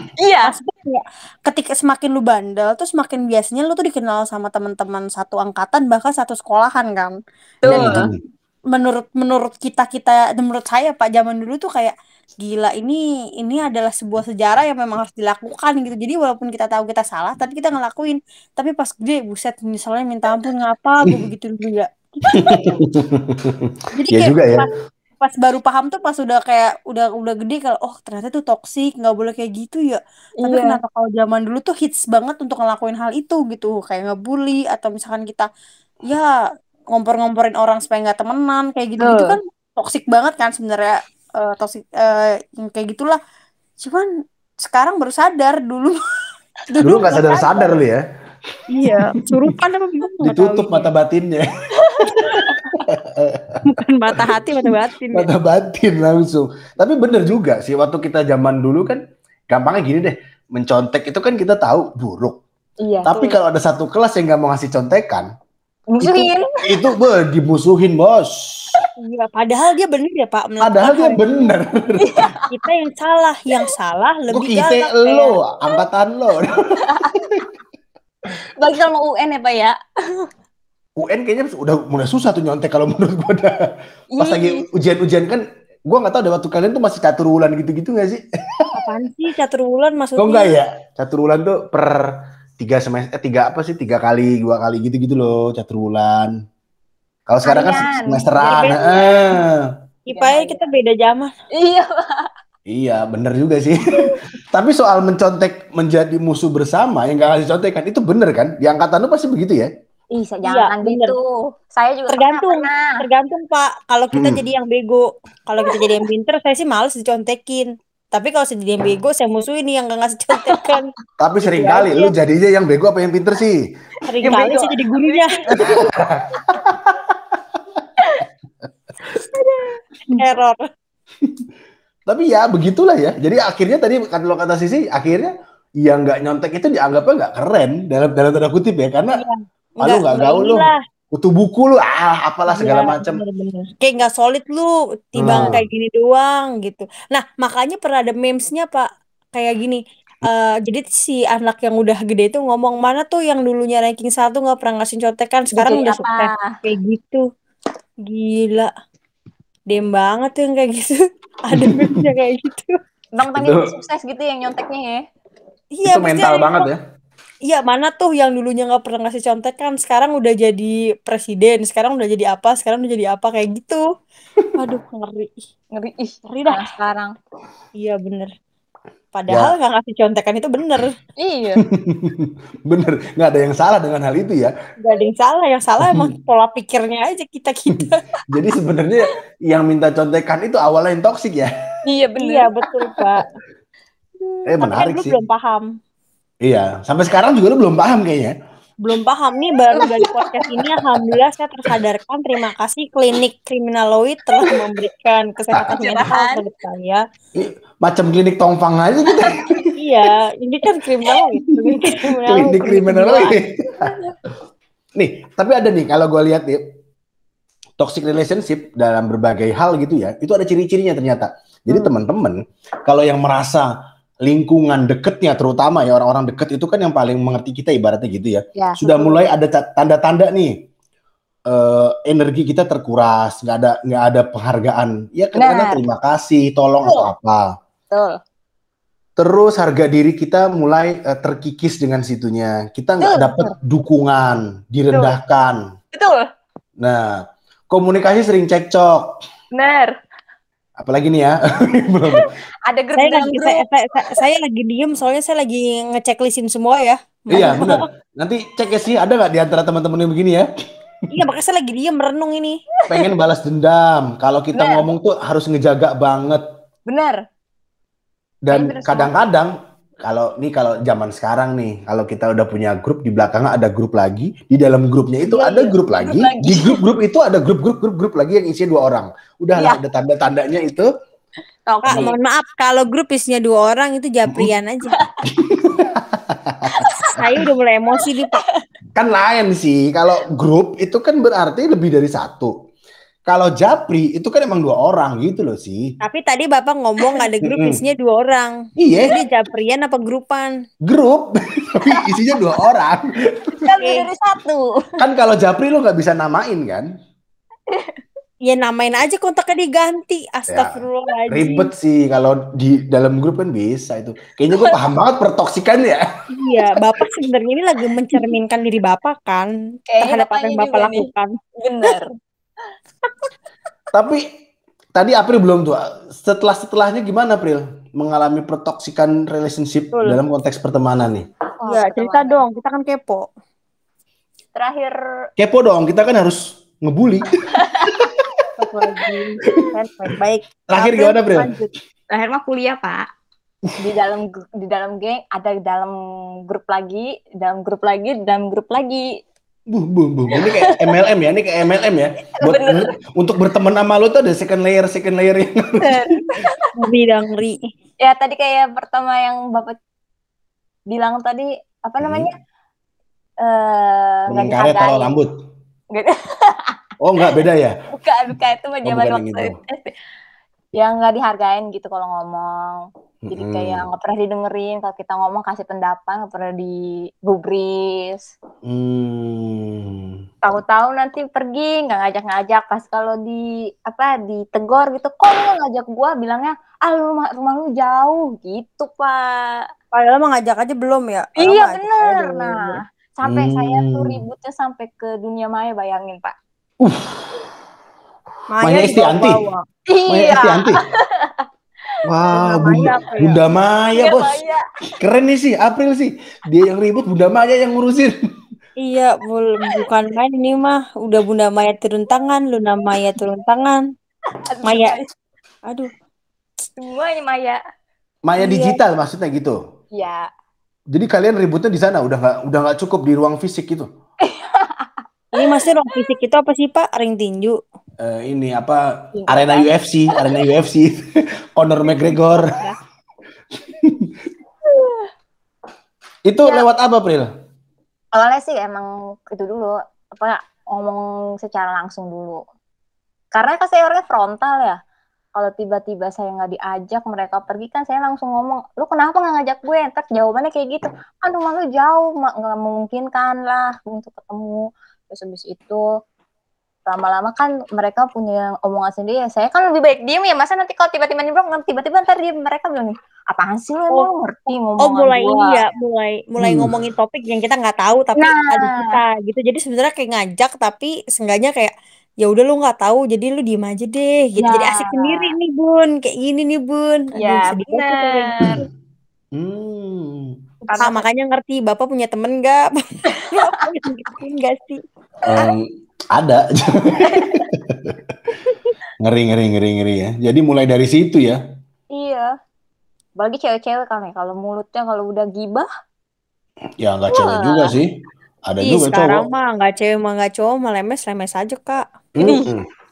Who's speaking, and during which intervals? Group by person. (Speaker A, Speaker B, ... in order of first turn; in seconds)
Speaker A: 0.2-0.6, 7.6-8.1, 30.4-30.8, 39.0-39.4, 51.8-52.6, 62.8-63.1, 65.9-66.5, 72.0-72.6, 76.9-77.2, 78.6-79.8, 84.2-84.6, 97.5-99.3, 100.1-100.7, 101.6-102.3, 110.1-112.9, 115.6-116.1, 120.3-120.8, 124.2-126.0, 129.2-129.8, 155.6-156.5, 163.2-165.0, 175.7-177.1, 181.2-181.6, 191.9-193.2, 199.7-200.7, 204.3-204.7, 205.6-206.5, 211.0-212.1, 213.8-214.1, 228.6-229.2, 235.4-235.8, 236.8-237.1, 237.9-238.2, 243.0-243.6, 245.9-246.2, 249.6-249.9, 252.1-254.2, 257.3-257.7, 264.6-264.8, 266.9-267.2, 268.5-269.1, 275.3-276.8, 281.7-282.2, 286.8-288.6, 297.0-297.2, 301.9-302.4, 303.6-304.9, 307.7-308.0, 314.5-314.8, 319.9-321.1, 321.6-322.1, 331.6-332.4, 334.5-335.0, 337.6-338.1, 342.1-343.1, 343.8-346.0, 346.5-349.1, 350.3-351.0, 352.4-352.9, 355.8-356.7, 358.0-359.8, 360.9-362.4, 363.4-365.1, 365.9-367.4, 367.9-369.9, 370.8-378.3, 380.4-389.7, 391.4-396.4, 399.9-401.5, 403.9-404.6, 414.5-415.1, 416.8-417.6, 418.4-418.8, 419.9-420.3, 424.2-426.1, 429.1-430.3, 434.6-435.1, 438.1-442.4, 443.3-444.8, 445.4-455.9, 456.9-465.6, 468.2-468.9, 474.4-475.3, 477.2-478.5, 480.7-481.1, 483.1-483.6, 487.0-487.5, 491.9-492.3, 493.2-495.7, 497.1-497.7, 502.2-502.5
Speaker B: 0.5-8.1, 8.7-22.6, 23.9-24.7, 25.2-35.5, 36.9-43.2, 43.8-44.1, 44.6-46.0, 46.7-47.7, 48.7-50.9, 53.7-55.3, 63.1-63.4, 69.0-71.5, 72.5-75.2, 88.7-90.5, 98.4-98.9, 100.1-101.3, 110.5-111.2, 112.1-120.9, 121.5-122.1, 124.1-125.3, 130.2-130.7, 139.2-140.8, 142.5-157.3, 158.1-158.7, 159.7-162.8, 165.8-166.7, 167.5-173.8, 174.6-175.4, 176.3-176.7, 177.8-178.3, 179.1-180.9, 184.8-188.0, 192.2-193.3, 194.2-195.7, 198.8-207.0, 209.8-213.4, 253.0-257.8, 261.1-262.6, 281.9-284.9, 287.1-288.4, 296.0-300.5, 303.8-304.1, 308.5-311.7, 316.3-321.3, 331.7-333.3, 338.6-341.7, 356.8-357.7, 389.9-392.8, 398.5-399.6, 402.4-403.4, 408.8-413.8, 414.7-415.0, 415.7-415.9, 425.4-427.6, 464.8-478.5, 480.7-482.7, 483.3-484.8, 498.6-501.8
Speaker C: 7.7-8.2, 22.3-24.7, 46.8-48.0, 48.9-49.6, 50.2-51.4, 52.0-53.6, 55.1-62.4, 63.0-65.3, 66.0-68.8, 70.6-72.2, 74.3-77.4, 81.0-83.7, 84.2-88.2, 90.2-96.3, 97.3-99.7, 102.7-109.7, 114.1-114.4, 121.2-123.6, 125.5-127.1, 132.1-139.2, 139.8-143.2, 145.2-145.6, 161.5-162.0, 163.3-163.7, 165.8-166.8, 179.3-179.5, 181.6-184.5, 185.8-186.1, 188.3-191.5, 194.5-195.2, 196.4-198.3, 207.4-209.7, 212.3-213.5, 215.0-216.6, 217.8-223.7, 224.2-230.6, 231.5-237.5, 239.2-245.6, 246.8-249.1, 250.8-252.3, 257.3-260.4, 262.9-266.4, 268.5-269.5, 270.1-280.9, 285.3-286.8, 289.0-292.5, 293.3-295.9, 297.4-297.8, 298.8-299.1, 300.9-303.7, 305.0-306.9, 310.5-316.0, 323.9-324.2, 324.9-331.3, 335.4-337.3, 337.9-338.3, 340.7-341.5, 349.7-356.1, 362.0-362.3, 364.3-365.3, 367.0-367.7, 368.9-369.5, 373.3-373.9, 378.6-380.1, 393.3-394.2, 396.8-397.4, 398.6-399.4, 400.1-400.8, 402.1-404.4, 405.0-408.1, 418.3-419.6, 420.9-423.9, 428.0-431.0, 431.6-432.6, 433.8-434.1, 436.3-437.3, 466.4-466.8, 479.4-480.3, 485.2-488.0, 489.0-491.4, 496.8-497.9, 498.5-499.2, 502.2-502.6